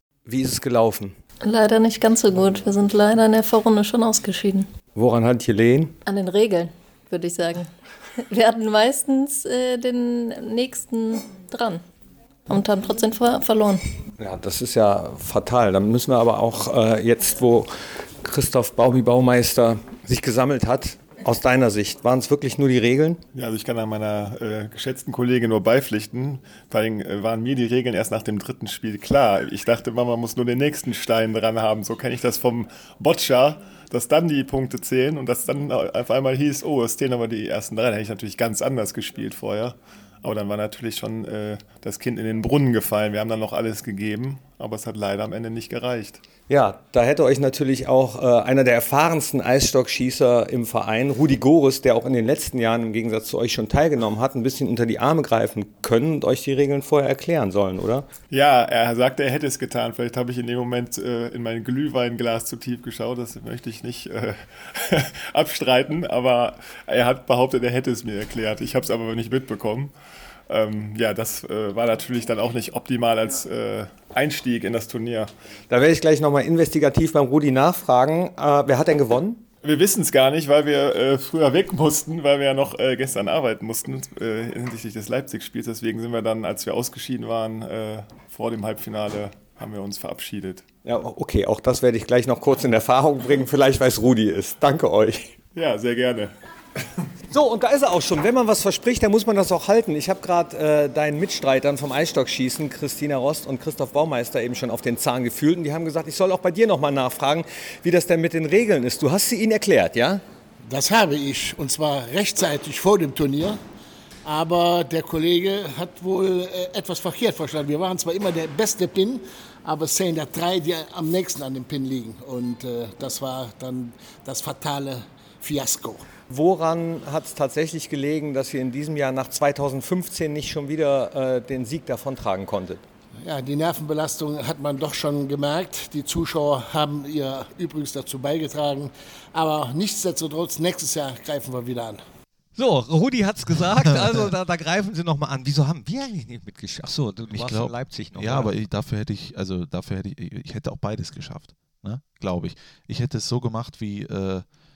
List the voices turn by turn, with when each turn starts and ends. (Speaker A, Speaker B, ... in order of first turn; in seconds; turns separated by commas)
Speaker A: 0.2-1.2, Speaker B: 1.4-4.7, Speaker A: 4.9-6.0, Speaker B: 6.0-7.7, Speaker B: 8.3-11.8, Speaker B: 12.5-13.8, Speaker A: 14.2-23.2, Speaker C: 23.3-46.2, Speaker A: 46.5-58.1, Speaker C: 58.3-69.9, Speaker C: 70.5-75.3, Speaker A: 75.7-79.4, Speaker C: 79.6-90.7, Speaker A: 90.8-95.3, Speaker C: 95.5-96.3, Speaker A: 97.3-110.2, Speaker D: 110.6-113.6, Speaker D: 114.2-126.0, Speaker A: 126.3-132.8, Speaker D: 133.2-142.0, Speaker E: 142.6-148.5, Speaker F: 143.8-144.2, Speaker F: 147.3-154.4